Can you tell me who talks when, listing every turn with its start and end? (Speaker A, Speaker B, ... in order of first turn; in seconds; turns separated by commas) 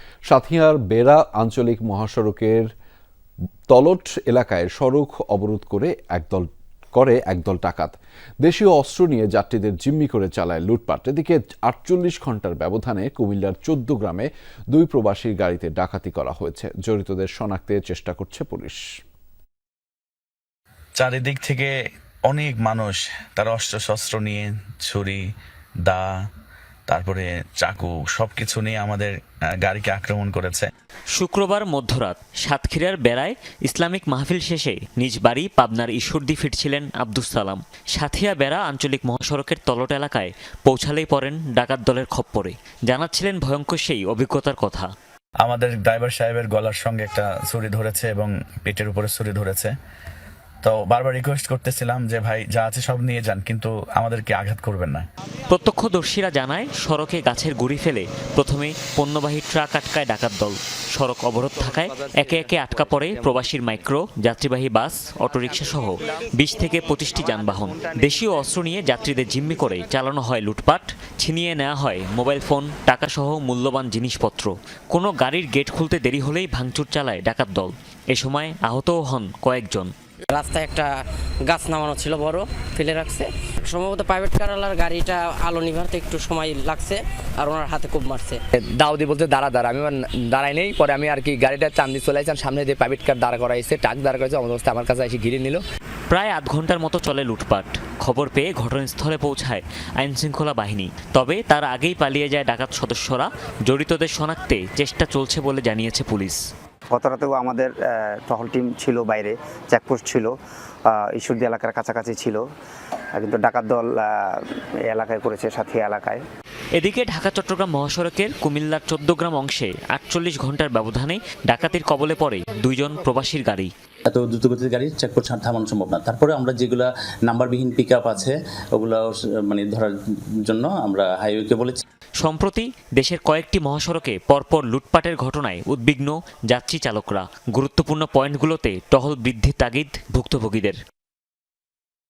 Speaker A: 0.3-2.7, Speaker A: 3.7-18.8, Speaker B: 20.9-25.2, Speaker B: 25.9-26.1, Speaker B: 26.9-30.7, Speaker C: 31.1-44.9, Speaker B: 45.4-49.7, Speaker B: 50.6-55.0, Speaker C: 55.5-79.9, Speaker D: 80.3-88.4, Speaker E: 88.7-95.6, Speaker C: 96.1-106.4, Speaker F: 106.9-110.3, Speaker F: 110.9-112.5, Speaker F: 113.1-116.2, Speaker C: 116.8-123.7, Speaker G: 124.1-131.8, Speaker C: 132.2-140.8